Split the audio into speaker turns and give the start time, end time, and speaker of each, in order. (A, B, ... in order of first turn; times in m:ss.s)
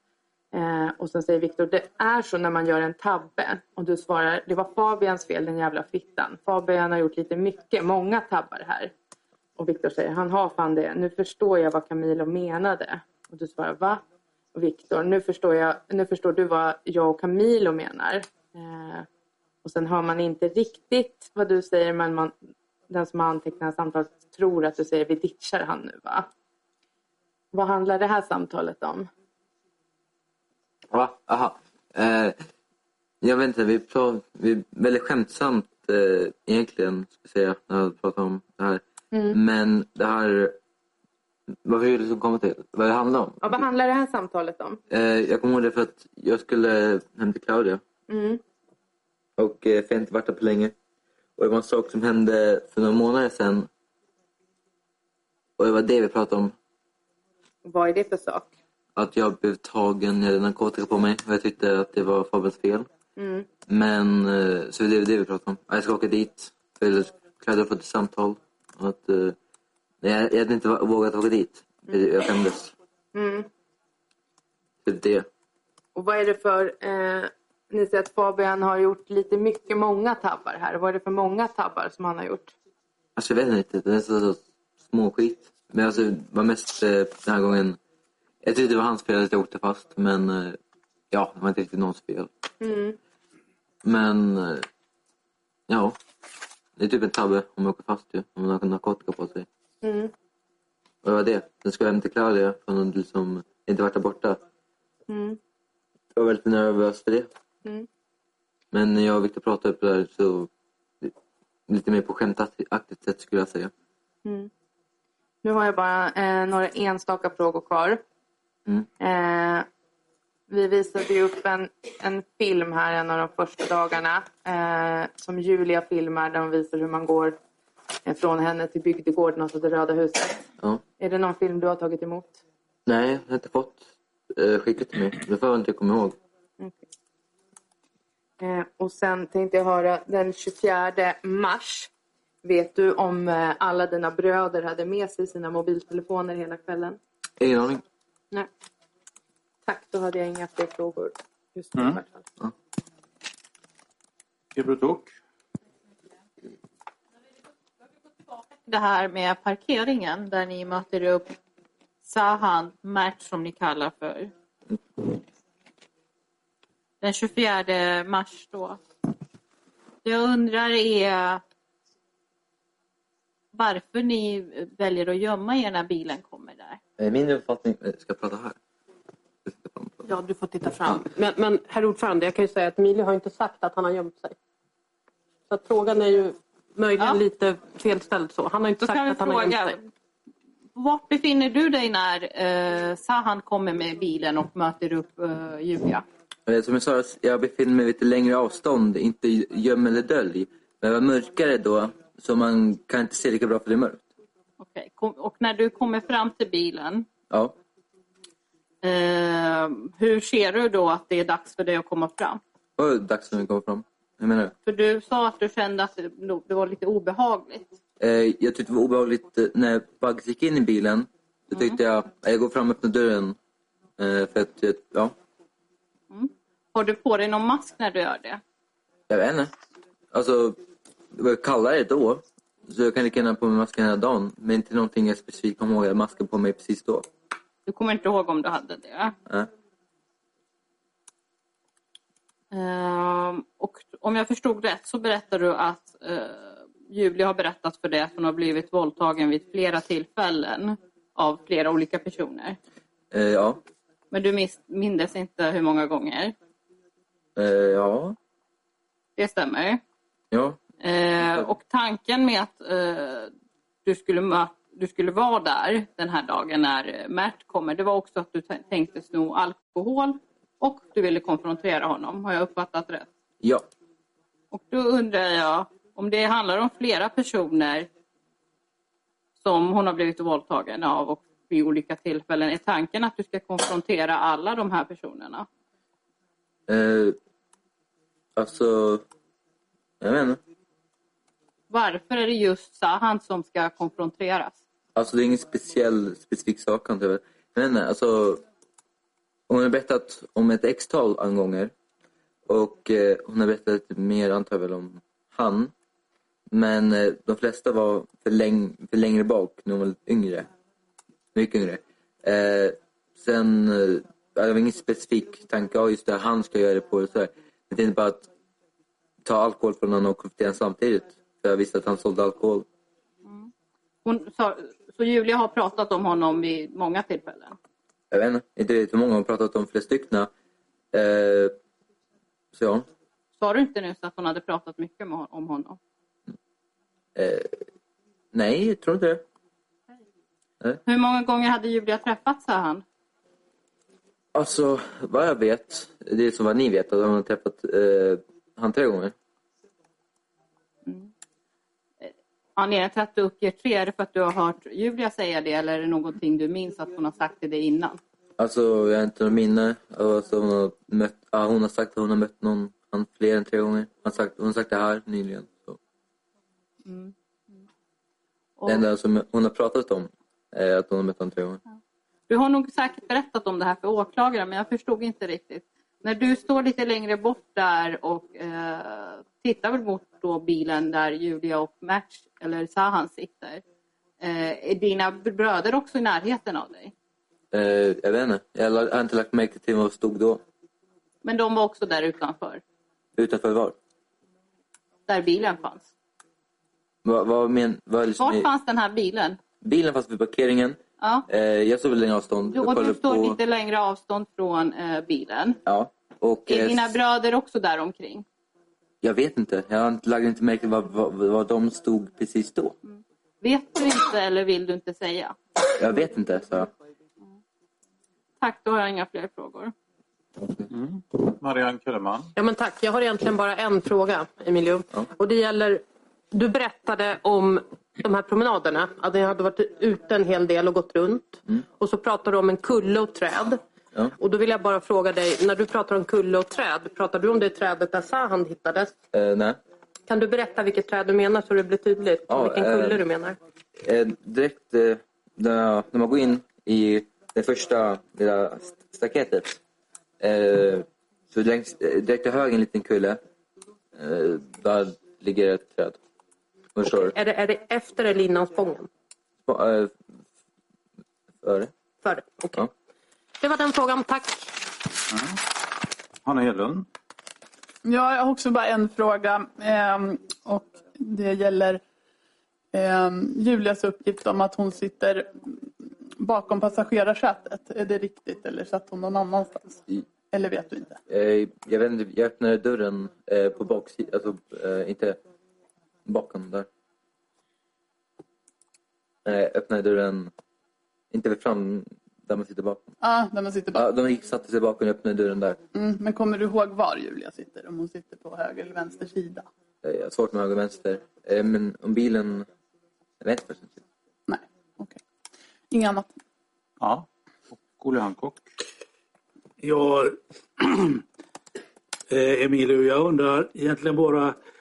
0:00.5-0:08.9 A
0:09.6-0:14.0 A
0:14.5-0:19.1 A
0:19.6-0:22.3 A
0:22.9-0:26.3 A
0:27.5-0:29.1 A
0:30.9-0:32.4 B
0:33.2-0:40.6 B
0:39.1-0:39.4 A
0:41.6-0:43.6 B
0:43.4-0:44.8 A
0:44.9-0:47.8 B
0:48.1-0:48.4 A
0:49.4-0:50.7 B
0:51.4-0:53.7 B
0:55.6-0:56.5 B
0:57.6-0:58.5 A
0:59.0-1:02.9 B
1:03.2-1:03.5 A
1:03.7-1:09.4 B
1:10.0-1:12.7 B
1:13.1-1:13.5 A
1:14.8-1:15.3 B
1:15.9-1:22.5 A
1:23.2-1:27.8 B
1:28.4-1:30.6 B
1:31.1-1:32.3 B
1:32.6-1:33.0 A
1:33.8-1:34.6 B
1:35.7-1:36.0 B
1:36.8-1:39.5 B
1:39.8-1:40.1 A
1:41.0-1:44.4 B
1:45.1-1:45.4 A
1:46.1-1:47.3 B
1:48.7-1:50.5 B
1:51.7-1:53.7 B
1:54.2-1:54.5 A
1:55.4-1:58.0 A
1:59.0-1:59.7 A
2:00.5-2:07.4 A
2:08.0-2:10.5 A
2:11.0-2:12.4 A
2:12.8-2:16.2 B
2:18.4-2:21.9 A
2:22.4-2:27.0 A
2:27.4-2:27.8 B
2:29.6-2:32.2 A
2:34.5-2:35.2 C
2:38.6-2:41.4 D
2:42.0-2:44.3 D
2:47.0-2:48.8 D
2:50.0-2:51.4 D
2:53.5-2:56.8 D
2:57.0-2:58.6 B
2:59.4-3:00.0 B
3:00.0-3:04.4 E
3:05.5-3:09.7 E
3:08.8-3:09.8 D
3:10.7-3:16.0 D
3:16.5-3:24.0 B
3:24.6-3:27.1 D
3:27.3-3:27.5 B
3:28.8-3:32.4 D
3:32.8-3:34.5 B
3:34.6-3:37.8 D
3:38.0-3:43.4 B
3:41.5-3:41.8 D
3:44.0-3:45.2 B
3:46.1-3:48.4 D
3:49.1-3:49.5 B
3:50.1-3:50.6 B
3:51.1-3:57.1 B
3:57.6-3:59.2 D
4:02.5-4:12.6 D
4:13.1-4:13.6 B
4:14.1-4:16.3 D
4:17.4-4:18.2 B
4:19.2-4:19.8 D
4:20.3-4:20.6 B
4:20.8-4:23.3 D
4:21.2-4:21.5 B
4:23.8-4:33.1 D
4:34.5-4:37.9 D
4:39.4-4:45.5 D
4:46.7-4:47.2 B
4:48.4-4:49.0 B
4:50.0-4:50.4 B
4:51.7-4:54.6 D
4:54.9-4:58.4 B
4:59.5-5:01.7 B
5:02.5-5:05.7 B
5:06.5-5:10.5 B
5:11.3-5:18.3 B
5:19.2-5:22.7 B
5:24.0-5:27.6 D
5:28.1-5:30.3 B
5:30.9-5:31.6 B
5:32.5-5:32.9 B
5:33.4-5:35.8 D
5:37.1-5:37.6 B
5:38.3-5:39.2 B
5:40.8-5:42.8 D
5:44.3-5:49.1 B
5:52.0-5:58.0 D
5:58.4-6:05.8 B
6:06.8-6:07.1 D
6:08.6-6:08.8 D
6:08.6-6:11.6 B
6:12.3-6:23.6 D
6:24.2-6:26.9 D
6:27.5-6:30.4 B
6:31.2-6:32.6 D
6:33.2-6:33.8 B
6:35.1-6:35.9 D
6:37.0-6:38.5 B
6:38.1-6:39.4 D
6:39.6-6:43.4 B
6:41.0-6:41.2 D
6:42.5-6:45.6 D
6:45.6-6:47.0 B
6:46.5-6:48.2 D
6:49.0-6:52.8 B
6:52.8-6:55.4 D
6:55.7-6:56.7 B
6:58.4-6:59.7 D
7:00.7-7:02.3 C
7:02.4-7:13.6 E
7:14.2-7:18.9 E
7:19.1-7:19.6 B
7:20.1-7:23.4 E
7:22.3-7:23.0 B
7:23.8-7:29.6 B
7:30.2-7:33.2 B
7:33.9-7:36.0 B
7:36.8-7:37.2 B
7:36.8-7:38.9 E
7:39.4-7:39.9 B
7:41.4-7:41.7 B
7:42.0-7:42.7 E
7:43.4-7:44.6 E
7:45.1-7:45.4 C
7:46.2-7:46.9 C
7:47.8-7:51.8 F
7:52.7-8:01.0 F
8:01.1-8:05.2 B
8:06.0-8:06.7 B
8:09.2-8:10.3 B
8:11.1-8:12.9 B
8:13.0-8:13.8 F
8:13.7-8:15.6 B
8:15.7-8:19.5 F
8:19.8-8:22.5 B
8:23.2-8:23.8 B
8:24.3-8:25.0 F
8:25.7-8:26.1 F
8:26.8-8:28.4 C
8:29.6-8:31.0 G
8:32.1-8:34.4 G